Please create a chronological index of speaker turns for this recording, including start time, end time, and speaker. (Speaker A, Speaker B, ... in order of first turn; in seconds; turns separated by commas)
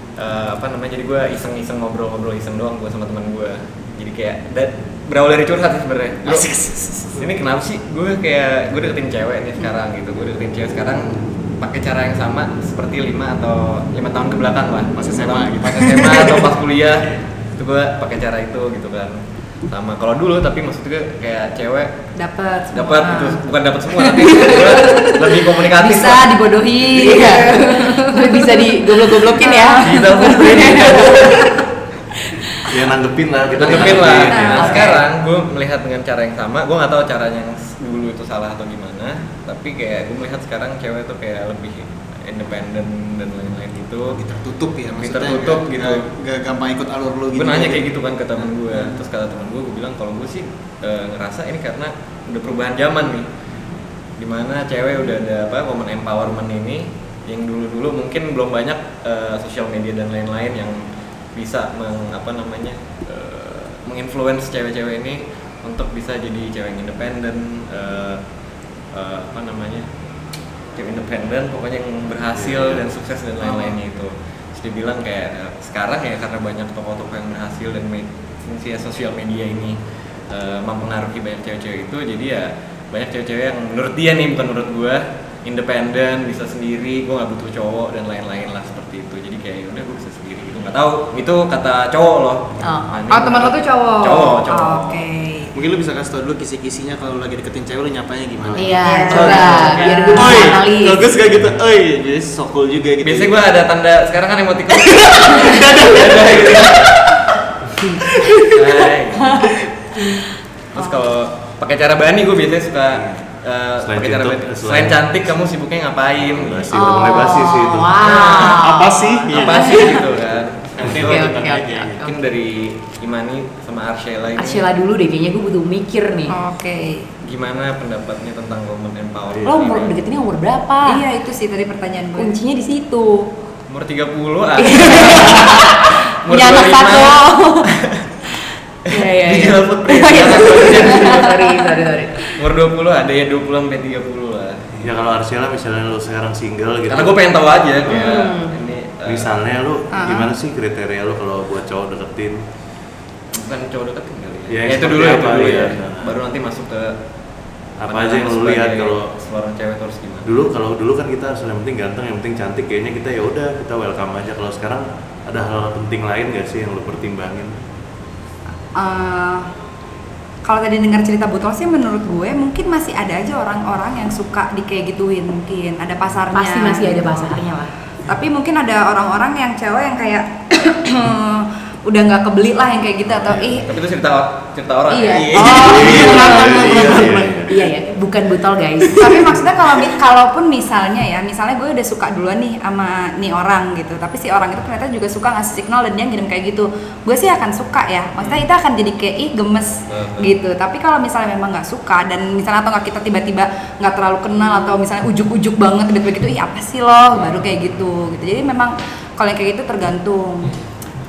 Speaker A: 0.2-6.5, Speaker B: 6.2-7.3, Speaker A: 7.2-21.9, Speaker B: 14.9-16.5, Speaker C: 22.2-31.2, Speaker A: 22.7-26.4, Speaker D: 26.9-31.5, Speaker A: 29.8-31.6, Speaker D: 32.3-32.7, Speaker E: 32.7-34.6, Speaker A: 33.5-44.2, Speaker C: 34.3-35.0, Speaker D: 34.5-35.0, Speaker B: 44.1-47.9, Speaker A: 45.0-46.1, Speaker A: 47.3-53.3, Speaker B: 48.4-49.0, Speaker A: 54.2-60.8, Speaker A: 61.4-68.2, Speaker A: 68.9-69.9, Speaker A: 70.7-79.8, Speaker E: 72.3-72.8, Speaker A: 80.3-95.0, Speaker D: 92.6-92.9, Speaker C: 93.1-95.5, Speaker B: 95.5-103.4, Speaker E: 98.4-98.7, Speaker D: 98.6-101.0, Speaker C: 98.8-100.4, Speaker A: 99.1-99.9, Speaker A: 103.0-107.0, Speaker B: 104.8-106.9, Speaker B: 108.1-108.6, Speaker A: 108.4-109.5, Speaker D: 109.2-110.2, Speaker A: 110.7-116.7, Speaker E: 113.8-115.1, Speaker E: 116.2-118.0, Speaker D: 116.7-120.0, Speaker A: 118.0-118.7, Speaker B: 118.4-120.2, Speaker A: 119.2-121.4, Speaker B: 120.8-122.0, Speaker D: 120.9-122.2, Speaker A: 122.0-124.7, Speaker D: 124.4-126.4, Speaker C: 126.3-127.1, Speaker A: 127.2-129.9, Speaker D: 129.4-131.0, Speaker C: 130.9-132.3, Speaker D: 132.2-133.3, Speaker A: 133.7-138.1, Speaker D: 134.6-137.7, Speaker A: 138.9-141.4, Speaker D: 138.9-142.3, Speaker A: 142.3-144.7, Speaker E: 144.8-147.2, Speaker A: 146.9-149.3, Speaker D: 147.9-148.5, Speaker E: 149.1-152.4, Speaker C: 149.9-150.3, Speaker A: 153.3-157.0, Speaker E: 154.5-156.2, Speaker E: 157.8-159.1, Speaker A: 157.8-160.3, Speaker E: 160.3-167.6, Speaker C: 168.8-169.5, Speaker C: 170.4-177.4, Speaker D: 176.3-177.7, Speaker C: 178.1-183.7, Speaker A: 183.1-185.8, Speaker D: 184.9-189.3, Speaker B: 185.1-187.3, Speaker E: 185.6-187.6, Speaker C: 185.6-186.6, Speaker C: 189.0-210.6, Speaker A: 199.9-200.4, Speaker A: 207.2-207.4